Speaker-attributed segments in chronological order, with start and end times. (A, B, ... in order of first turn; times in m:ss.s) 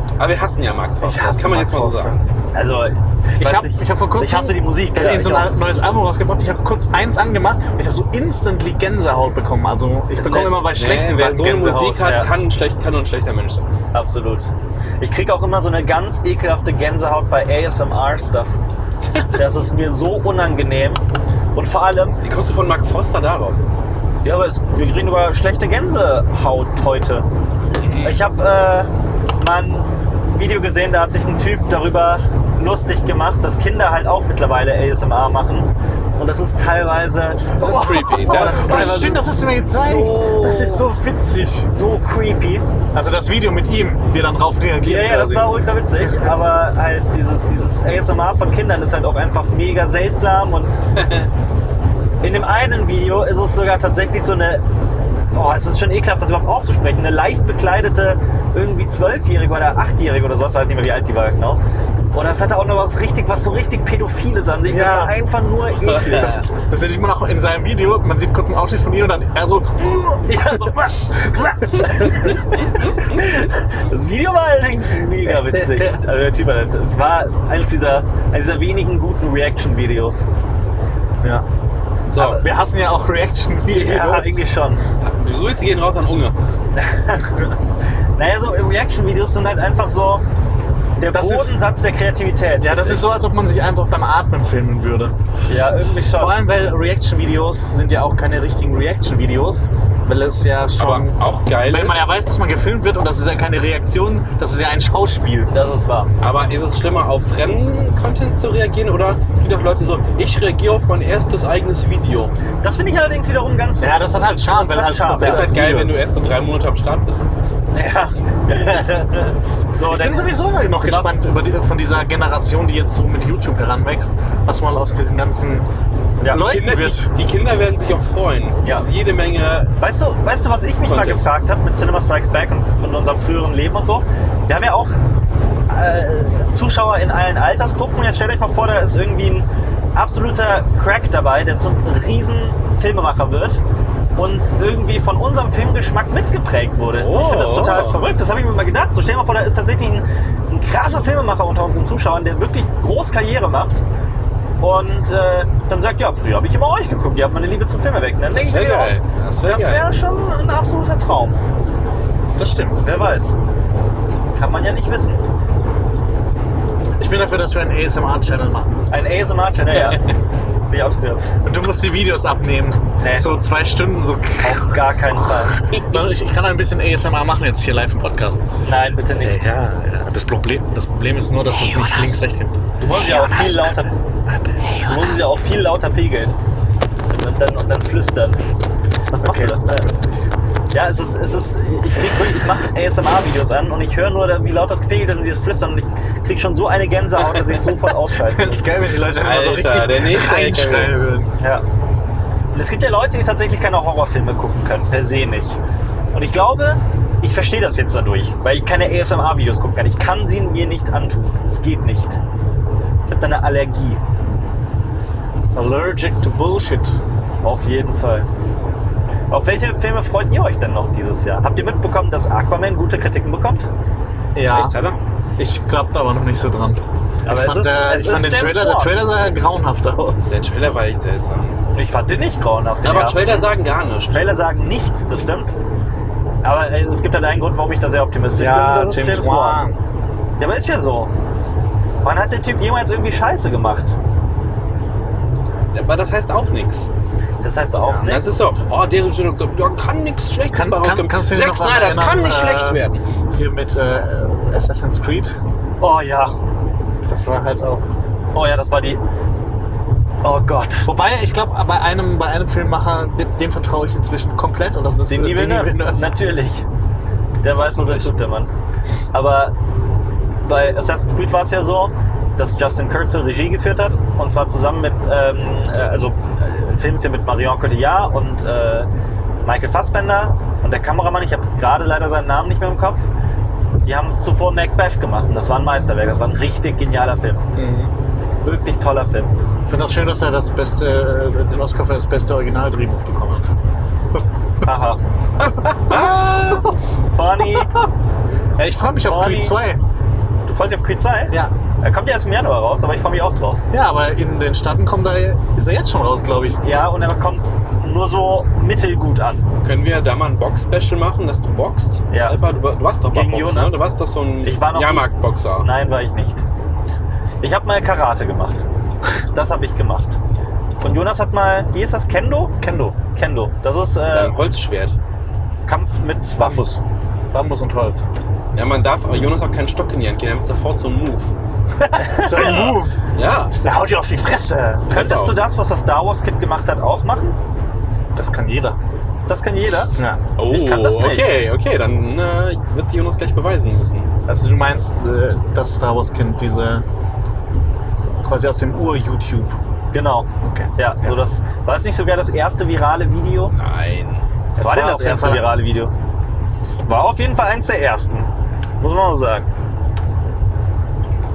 0:00.2-0:02.2 A
0:01.0-0:02.2 B
0:02.5-0:05.5 C
0:03.4-0:12.1 B
0:10.2-0:10.6 C
0:10.7-0:13.7 A
0:13.9-0:14.5 C
0:15.0-0:18.6 C
0:19.3-0:21.0 C
0:21.5-0:22.2 C
0:22.2-0:23.6 A
0:24.2-0:27.3 C
0:27.8-0:28.2 A
0:28.0-0:40.9 C
0:37.6-0:39.0 A
0:37.6-0:41.7 B
0:41.7-0:42.6 C
0:42.9-0:46.3 B
0:44.8-0:50.8 C
0:51.0-0:51.3 A
0:52.2-0:54.6 C
0:55.3-1:01.6 C
1:02.1-1:06.5 C
1:04.7-1:05.1 B
1:06.1-1:12.4 B
1:10.3-1:20.3 C
1:15.3-1:16.0 B
1:22.1-1:22.4 C
1:22.1-1:22.4 A
1:22.4-1:24.4 B
1:23.7-1:24.8 C
1:25.0-1:26.4 A
1:26.8-1:27.4 C
1:28.2-1:30.2 C
1:31.0-1:33.0 C
1:31.1-1:31.6 B
1:32.6-1:35.1 B
1:35.5-1:36.3 C
1:36.1-1:45.5 B
1:40.8-1:42.1 A
1:45.5-1:46.1 C
1:46.2-1:52.3 A
1:52.6-1:55.5 C
1:53.8-1:56.0 B
1:55.2-1:57.3 A
1:57.7-2:01.2 C
1:58.5-1:59.0 B
1:59.8-2:05.7 B
2:06.2-2:06.5 C
2:06.2-2:07.1 B
2:06.4-2:09.7 A
2:09.8-2:15.0 C
2:10.8-2:11.2 A
2:15.7-2:23.6 C
2:24.2-2:33.8 C
2:26.9-2:28.0 A
2:34.6-2:41.4 C
2:38.3-2:39.9 A
2:42.4-2:42.8 B
2:42.8-2:43.4 C
2:44.4-2:45.2 C
2:47.0-2:48.8 B
2:48.9-2:50.0 C
2:50.7-2:51.2 C
2:51.4-2:58.4 B
2:53.0-2:53.4 C
2:54.4-2:55.6 C
2:58.6-2:59.5 C
2:59.1-3:05.2 B
3:02.8-3:03.9 C
3:04.7-3:06.3 C
3:07.1-3:08.4 C
3:09.1-3:09.9 C
3:09.2-3:10.3 B
3:10.7-3:18.7 C
3:18.1-3:21.3 B
3:19.2-3:20.9 A
3:22.5-3:25.6 C
3:26.1-3:32.2 C
3:33.1-3:34.0 C
3:35.6-3:37.0 B
3:37.4-3:38.3 C
3:39.3-3:43.7 C
3:44.4-3:44.8 B
3:44.5-3:45.0 A
3:45.4-3:50.4 B
3:47.3-3:48.9 C
3:50.3-3:51.6 A
3:51.8-3:53.5 C
3:52.8-3:54.3 A
3:54.1-3:55.5 C
3:56.4-3:59.6 C
3:58.4-3:59.8 B
4:00.4-4:01.1 C
4:02.0-4:04.0 C
4:05.7-4:06.9 A
4:07.4-4:08.5 C
4:07.8-4:08.1 B
4:08.1-4:13.0 A
4:10.5-4:15.4 B
4:15.8-4:16.4 C
4:17.1-4:17.9 B
4:18.3-4:19.0 C
4:20.2-4:20.9 C
4:20.8-4:26.1 B
4:25.1-4:26.7 C
4:27.4-4:28.5 C
4:27.8-4:28.1 A
4:29.1-4:29.5 C
4:30.4-4:38.9 C
4:39.4-4:43.1 C
4:43.8-4:47.5 C
4:47.6-4:47.9 B
4:48.4-4:49.3 C
4:49.7-4:53.5 B
4:54.6-4:55.0 C
4:55.6-4:56.8 B
4:55.9-4:56.7 A
4:57.1-4:57.7 C
4:57.5-4:57.8 B
4:58.6-4:59.8 B
4:59.1-4:59.6 C
5:00.5-5:03.6 C
5:03.7-5:06.6 B
5:06.6-5:09.5 C
5:09.6-5:15.7 A
5:12.1-5:12.4 C
5:13.1-5:13.8 C
5:14.4-5:15.1 C
5:15.6-5:16.4 C
5:17.4-5:18.6 C
5:19.3-5:20.2 C
5:20.8-5:22.6 C
5:22.6-5:23.0 B
5:23.2-5:24.3 C
5:24.1-5:25.0 A
5:25.7-5:26.7 C
5:26.4-5:28.1 B
5:28.6-5:31.3 A
5:31.8-5:33.0 B
5:32.0-5:32.8 C
5:33.1-5:33.5 A
5:33.5-5:35.0 B
5:34.9-5:35.4 A
5:34.9-5:37.4 C
5:38.2-5:38.8 B
5:39.3-5:40.0 C
5:40.0-5:40.2 B
5:40.4-5:44.1 A
5:40.5-5:41.3 C
5:44.3-5:46.9 B
5:48.0-5:49.6 B
5:49.9-5:53.5 C
5:50.4-5:51.2 B
5:53.5-5:54.2 A
5:54.6-5:55.5 B
5:54.6-5:55.9 C
5:56.9-5:58.3 C
5:58.8-5:59.5 C